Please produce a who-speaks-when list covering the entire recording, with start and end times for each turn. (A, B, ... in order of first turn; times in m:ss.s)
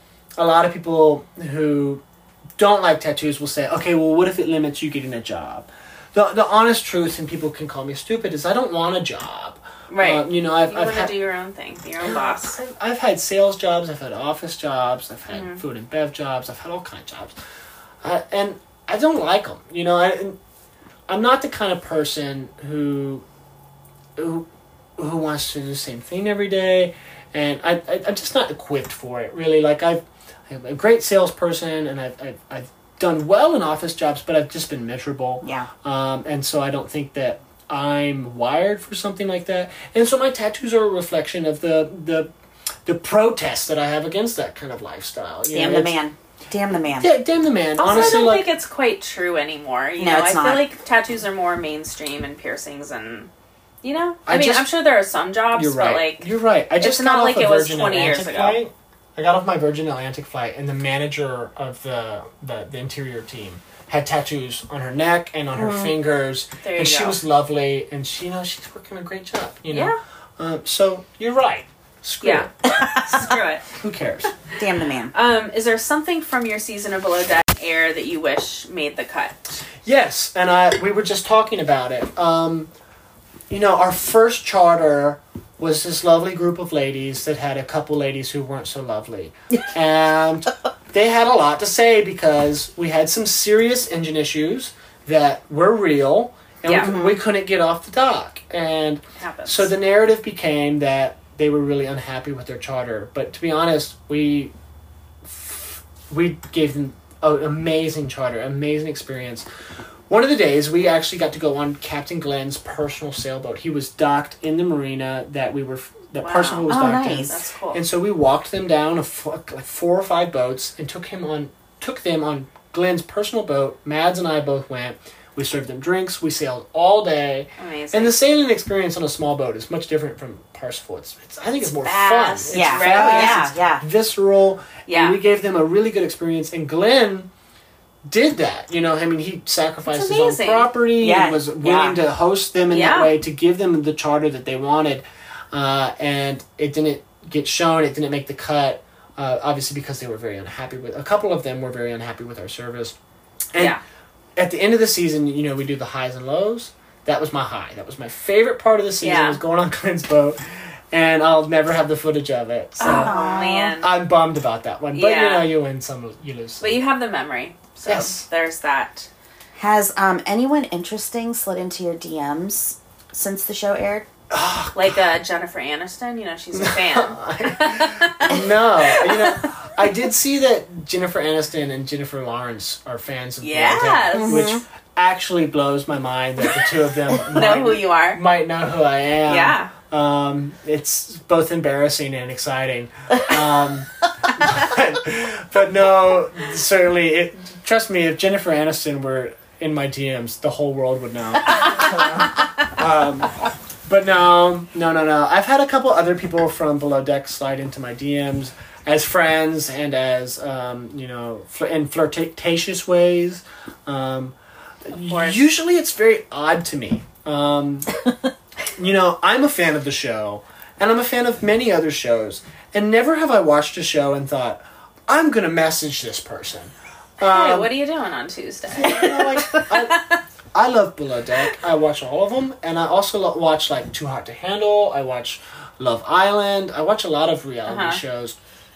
0:00.4-0:02.0 A
0:02.6-0:11.1 A
0:09.9-0:12.6 B
0:12.0-0:17.4 A
0:15.3-0:15.6 B
0:18.0-0:20.4 A
0:21.1-0:23.2 A
0:24.2-0:42.3 A
0:35.4-0:35.7 C
0:42.8-0:45.9 A
0:45.5-0:47.1 C
0:47.0-0:48.5 A
0:47.8-0:53.3 B
0:47.9-0:48.2 C
0:50.0-0:50.6 C
0:53.8-0:56.3 B
0:54.3-0:54.7 A
0:55.5-1:12.5 A
0:56.8-0:58.6 B
1:05.6-1:05.9 C
1:06.6-1:07.2 B
1:09.7-1:10.0 B
1:12.2-1:13.6 B
1:13.1-1:14.3 A
1:14.6-1:15.1 C
1:15.1-1:19.6 B
1:19.8-1:22.7 A
1:23.5-1:44.5 A
1:36.6-1:36.9 B
1:36.8-1:37.2 C
1:39.2-1:39.7 B
1:45.2-1:49.4 A
1:50.1-2:17.3 A
1:56.2-1:57.8 B
1:56.7-1:57.4 C
2:07.6-2:08.2 B
2:11.7-2:13.5 B
2:12.5-2:13.8 C
2:14.9-2:15.2 B
2:18.1-2:33.0 A
2:19.8-2:20.7 B
2:21.0-2:22.0 C
2:22.7-2:23.1 B
2:34.4-2:40.4 A
2:39.0-2:39.4 B
2:40.9-2:43.1 A
2:42.8-2:43.9 B
2:42.8-2:43.7 C
2:43.8-2:46.8 A
2:44.9-2:45.5 B
2:46.6-2:49.1 B
2:47.9-2:48.2 A
2:49.6-2:54.0 C
2:54.3-2:55.0 A
2:54.7-2:59.5 B
2:56.5-3:23.3 A
3:03.4-3:04.5 B
3:04.1-3:04.6 C
3:07.3-3:08.2 B
3:09.3-3:09.7 B
3:23.8-3:34.4 A
3:34.9-3:37.9 A
3:34.9-3:35.5 B
3:38.7-3:47.7 A
3:47.2-3:50.2 B
3:48.7-3:58.4 A
3:57.6-3:58.0 B